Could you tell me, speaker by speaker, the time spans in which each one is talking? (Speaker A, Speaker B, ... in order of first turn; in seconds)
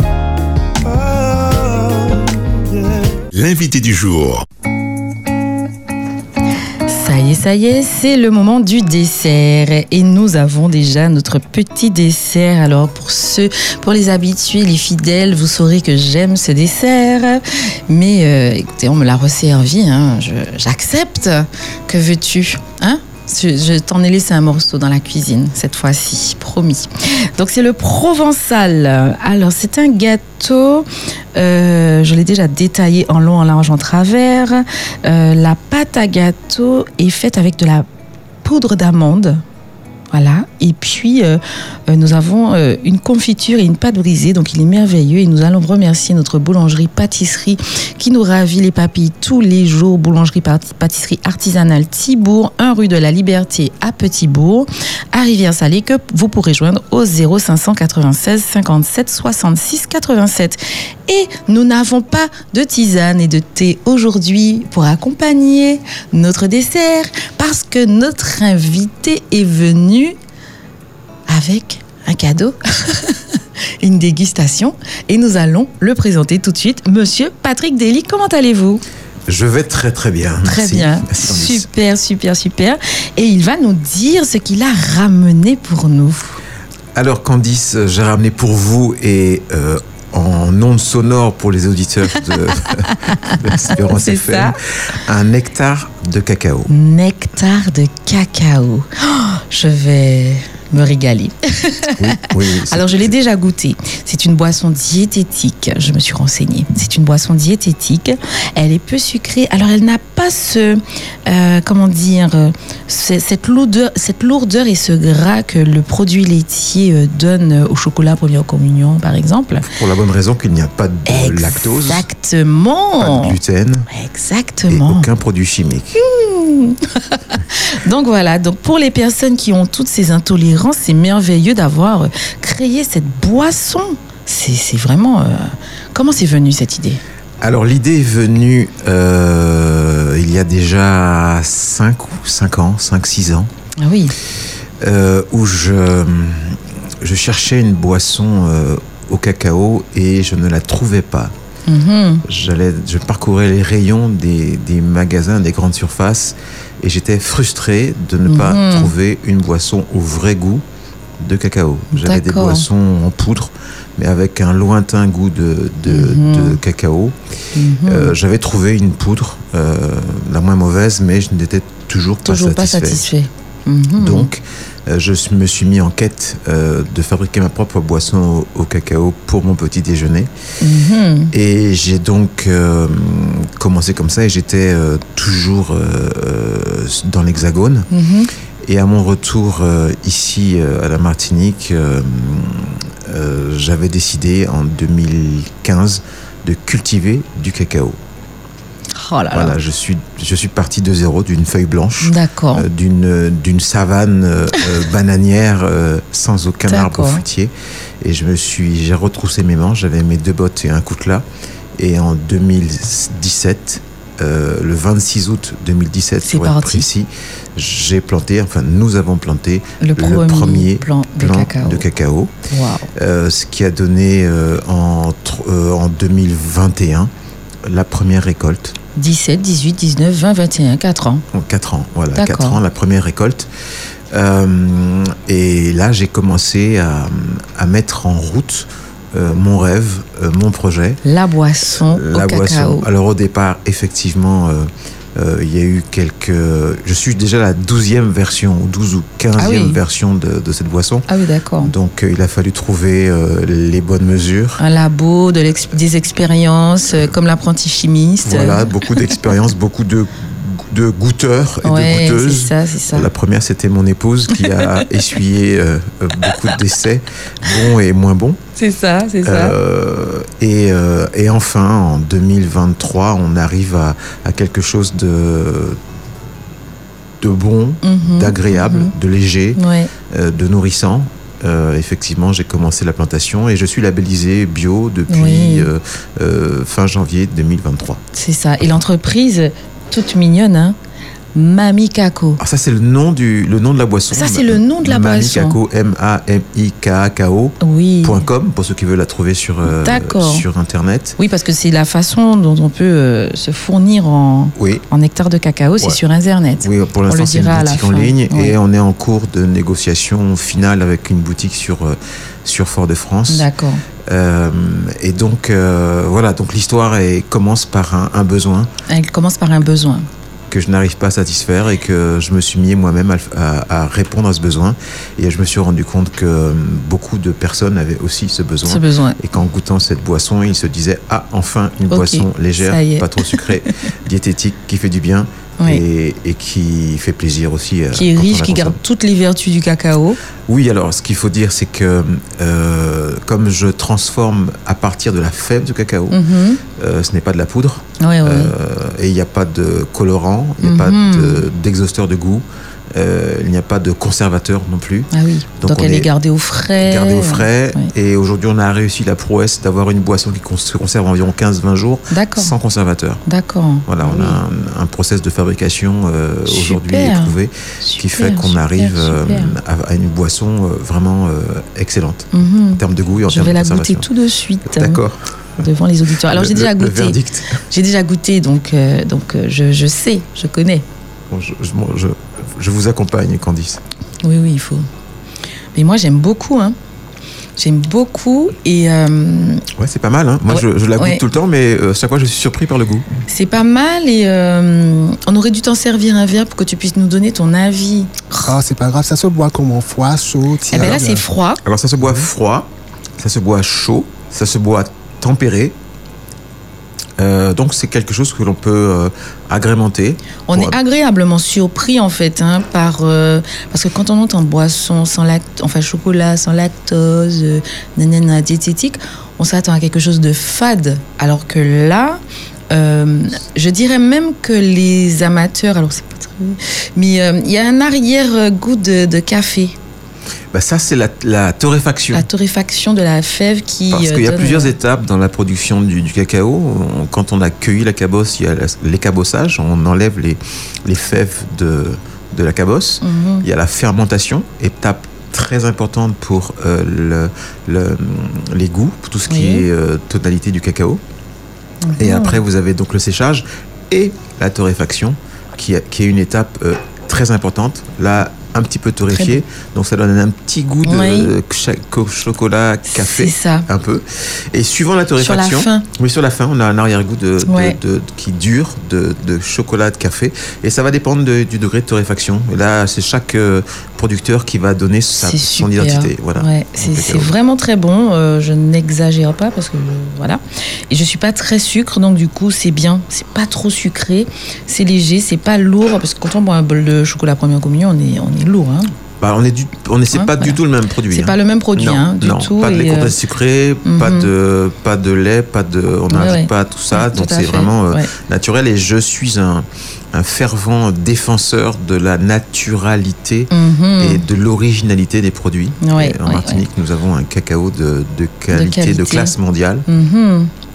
Speaker A: 0.9-4.5
Speaker B: 6.8-37.9, 38.4-39.4, 40.1-70.2, 71.3-78.8, 80.4-86.4, 92.2-94.6, 96.7-119.7, 121.0-123.4, 123.9-125.1, 126.0-137.0, 143.8-144.1, 151.7-152.2, 158.2-158.9, 161.9-162.7, 165.9-166.6, 167.5-168.1, 172.2-174.3, 180.6-181.3, 187.9-188.3, 198.9-199.6, 202.0-202.7, 206.7-207.2, 216.2-216.8, 219.8-221.8, 222.5-222.9, 228.9-231.2, 232.1-232.6, 241.0-242.9, 249.4-249.8, 251.1-251.7, 254.6-258.9, 261.6-263.1, 264.4-264.8, 268.6-269.6, 277.8-278.9, 279.6-279.9, 285.1-285.7, 288.1-290.8, 291.3-292.4, 294.1-295.6, 297.6-298.2, 299.6-300.4, 301.2-308.5, 313.3-313.8, 318.9-320.1, 328.6-329.2, 331.9-333.7, 337.9-340.2, 346.1-346.6, 348.0-348.5, 350.6-351.5, 355.1-357.9, 362.1-362.5, 363.2-364.4, 366.4-369.6, 372.3-375.0, 375.6-380.8, 384.2-384.9, 385.7-386.8, 387.6-389.6, 390.5-391.2, 393.3-398.5, 400.7-401.6, 410.5-422.2, 422.7-429.8, 432.1-434.7, 443.0-443.5, 449.3-449.6, 451.8-452.4, 459.1-459.4, 460.8-461.3, 462.9-463.6, 465.2-465.9, 467.4-467.8, 475.2-488.9, 490.1-493.2, 493.8-494.3, 496.1-498.1, 503.5-504.2, 505.8-506.6, 508.5-509.3, 509.9-510.5
Speaker C: 79.3-81.7, 86.9-96.7, 102.0-103.1, 119.6-122.0, 123.0-123.9, 124.7-126.0, 137.4-143.5, 144.8-151.3, 152.2-160.6, 161.2-167.2, 167.9-173.1, 173.9-180.3, 181.3-187.9, 188.6-198.0, 199.3-211.2, 211.8-222.3, 222.9-227.1, 227.7-228.8, 231.3-233.5, 234.1-241.0, 241.7-251.1, 251.6-254.6, 258.2-268.4, 269.2-275.8, 277.2-288.0, 292.4-301.2, 304.6-304.8, 306.6-313.5, 314.0-318.7, 320.5-338.8, 340.5-346.2, 346.8-356.1, 356.8-363.2, 363.9-374.1, 374.7-375.6, 376.3-377.6, 381.3-383.8, 389.8-393.1, 401.6-405.8, 407.2-410.8, 430.5-432.3, 433.9-451.0, 451.9-477.3, 489.2-509.9
Speaker D: 398.4-401.2